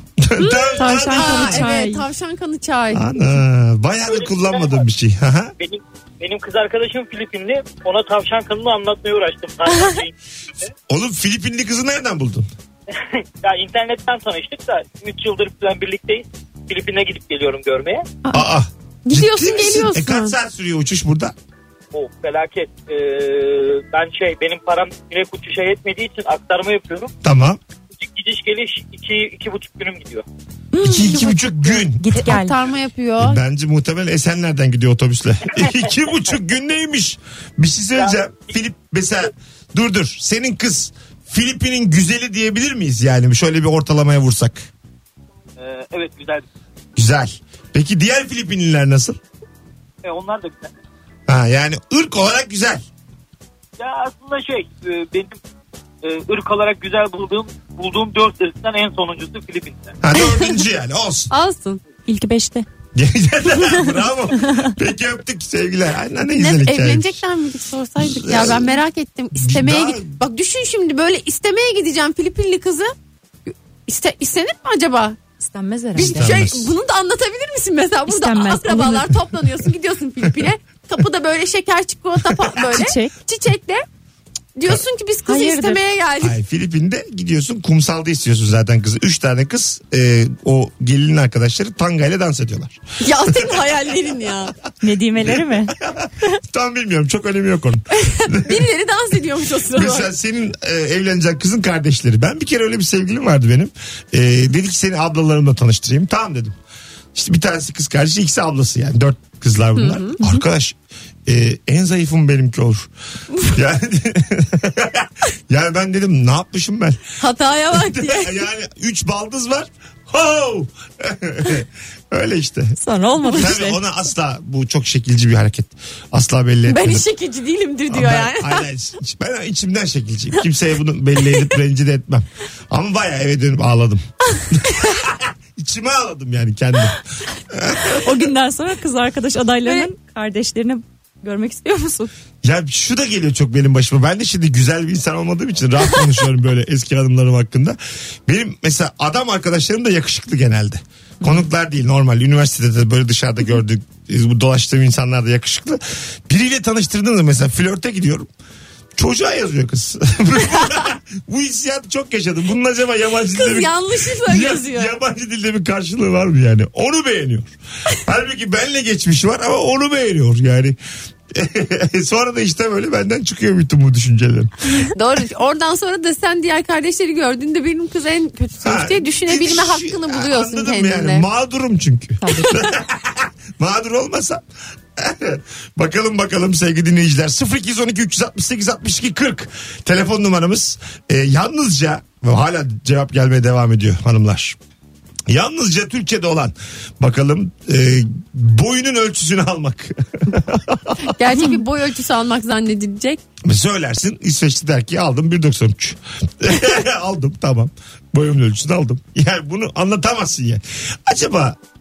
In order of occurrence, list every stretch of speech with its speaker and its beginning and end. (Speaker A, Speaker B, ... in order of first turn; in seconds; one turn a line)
Speaker A: 0.2-1.7
Speaker B: 0.4-3.0
Speaker C: 0.8-2.1
Speaker A: 2.9-5.5
Speaker D: 4.1-4.8
Speaker D: 5.6-10.7
Speaker A: 10.9-12.5
Speaker D: 13.4-18.1
Speaker A: 18.3-21.4
Speaker B: 19.1-20.4
Speaker D: 21.9-27.1
Speaker A: 27.2-27.6
Speaker D: 28.0-30.2
Speaker C: 30.7-32.6
Speaker A: 30.8-32.2
Speaker B: 32.1-33.4
Speaker A: 33.2-44.7
Speaker D: 45.6-46.5
Speaker A: 47.0-49.2
Speaker D: 50.0-50.7
Speaker A: 51.3-52.9
Speaker D: 53.8-55.4
Speaker D: 56.0-60.0
Speaker A: 60.0-61.3
Speaker B: 61.3-61.8
Speaker C: 62.1-62.7
Speaker A: 62.9-67.2
Speaker C: 64.5-64.7
Speaker B: 66.3-72.9
Speaker A: 68.0-68.8
Speaker A: 69.4-70.1
Speaker B: 73.5-75.2
Speaker C: 75.4-76.3
Speaker A: 76.0-76.7
Speaker B: 76.0-83.8
Speaker C: 78.1-79.2
Speaker C: 82.6-83.1
Speaker B: 84.6-86.4
Speaker C: 85.3-85.8
Speaker A: 86.2-93.8
Speaker B: 93.0-94.5
Speaker C: 94.8-95.8
Speaker A: 95.2-98.7
Speaker B: 98.0-100.1
Speaker A: 99.7-106.6
Speaker A: 107.2-112.9
Speaker B: 109.8-110.2
Speaker A: 113.5-117.2
Speaker B: 117.2-118.4
Speaker A: 117.7-127.1
Speaker C: 122.8-123.8
Speaker B: 126.7-128.7
Speaker A: 127.9-138.3
Speaker C: 138.0-142.1
Speaker A: 142.4-158.3
Speaker A: 159.0-170.8
Speaker B: 163.3-165.0
Speaker A: 171.3-174.5
Speaker B: 174.9-181.3
Speaker A: 178.6-184.4
Speaker C: 182.2-182.6
Speaker A: 185.0-194.6
Speaker A: 195.3-201.1
Speaker B: 201.0-203.2
Speaker A: 203.4-211.6